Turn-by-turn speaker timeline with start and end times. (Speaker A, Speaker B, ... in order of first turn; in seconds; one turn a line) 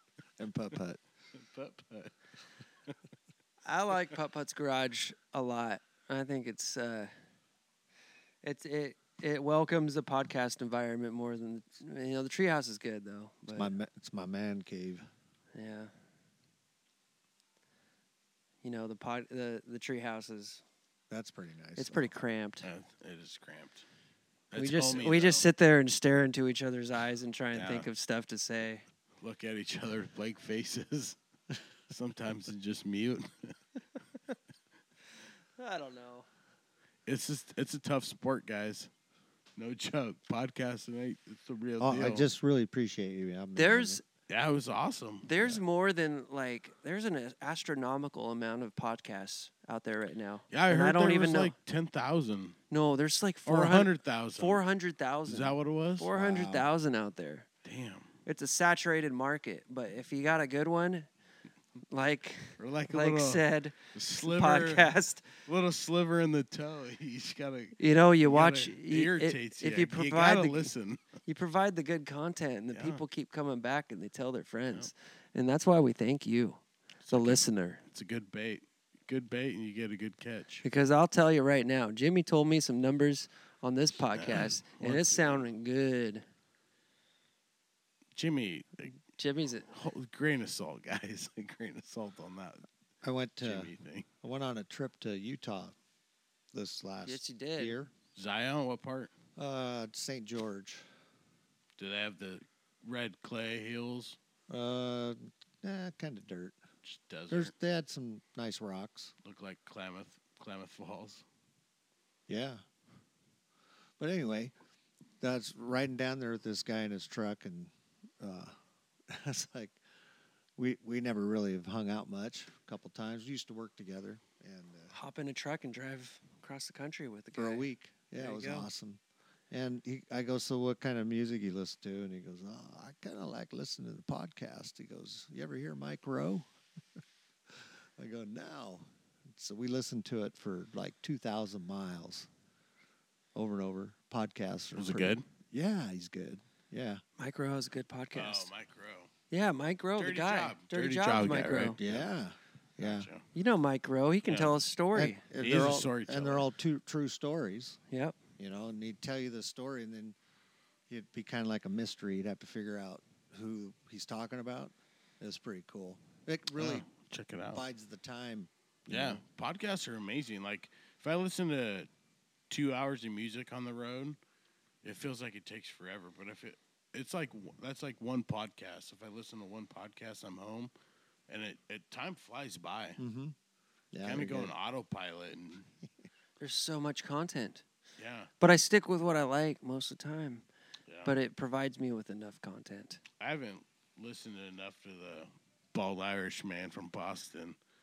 Speaker A: 0.4-1.0
Speaker B: 1.4-2.1
Speaker C: 3.6-7.1
Speaker C: 8.4-13.7
Speaker A: 13.5-15.1
Speaker C: 15.6-15.9
Speaker C: 18.6-20.6
Speaker A: 21.1-22.1
Speaker C: 21.8-22.7
Speaker B: 22.6-23.9
Speaker B: 24.5-25.5
Speaker C: 24.6-28.9
Speaker B: 27.6-27.9
Speaker B: 29.2-31.2
Speaker B: 31.9-33.5
Speaker C: 35.6-36.3
Speaker B: 37.0-38.9
Speaker B: 39.6-42.3
Speaker A: 41.8-44.0
Speaker C: 43.5-44.0
Speaker B: 44.3-45.4
Speaker C: 45.2-51.5
Speaker B: 50.5-52.6
Speaker C: 52.7-57.5
Speaker B: 53.5-54.6
Speaker B: 55.3-56.3
Speaker A: 56.2-56.7
Speaker B: 57.6-58.1
Speaker C: 58.3-61.1
Speaker C: 61.9-65.3
Speaker B: 62.6-71.0
Speaker C: 67.8-70.7
Speaker C: 71.3-77.8
Speaker B: 72.7-73.0
Speaker B: 77.0-80.6
Speaker C: 80.6-86.2
Speaker B: 84.1-85.5
Speaker B: 88.1-89.0
Speaker C: 89.2-89.7
Speaker B: 89.7-92.6
Speaker A: 93.0-93.7
Speaker B: 93.4-94.1
Speaker A: 94.2-95.8
Speaker A: 96.5-97.9
Speaker C: 97.0-97.8
Speaker B: 98.2-99.1
Speaker A: 99.4-100.8
Speaker B: 101.8-104.2
Speaker A: 104.5-106.6
Speaker B: 106.8-107.5
Speaker A: 107.3-109.1
Speaker B: 109.2-111.2
Speaker A: 112.3-112.6
Speaker A: 114.0-114.5
Speaker A: 115.2-118.5
Speaker A: 119.1-119.8
Speaker A: 120.6-124.9
Speaker C: 124.9-127.7
Speaker A: 127.3-136.5
Speaker C: 128.2-128.7
Speaker A: 137.5-142.3
Speaker A: 143.3-147.0
Speaker B: 144.7-145.2
Speaker C: 147.2-148.5
Speaker B: 148.1-149.1
Speaker C: 149.3-151.8
Speaker B: 150.0-152.1
Speaker A: 151.8-153.1
Speaker B: 152.8-153.2
Speaker C: 153.3-155.2
Speaker B: 154.3-154.6
Speaker A: 154.9-157.8
Speaker B: 155.4-156.5
Speaker C: 157.9-158.2
Speaker A: 158.4-160.2
Speaker A: 160.9-166.8
Speaker B: 166.6-167.6
Speaker A: 167.5-169.2
Speaker B: 168.9-171.9
Speaker B: 172.5-174.2
Speaker B: 174.8-180.7
Speaker B: 181.3-183.0
Speaker A: 183.0-183.4
Speaker A: 183.9-184.5
Speaker B: 184.0-185.7
Speaker C: 186.4-187.6
Speaker B: 188.0-188.3
Speaker C: 188.4-190.4
Speaker B: 190.9-191.1
Speaker C: 191.1-193.0
Speaker B: 193.2-197.6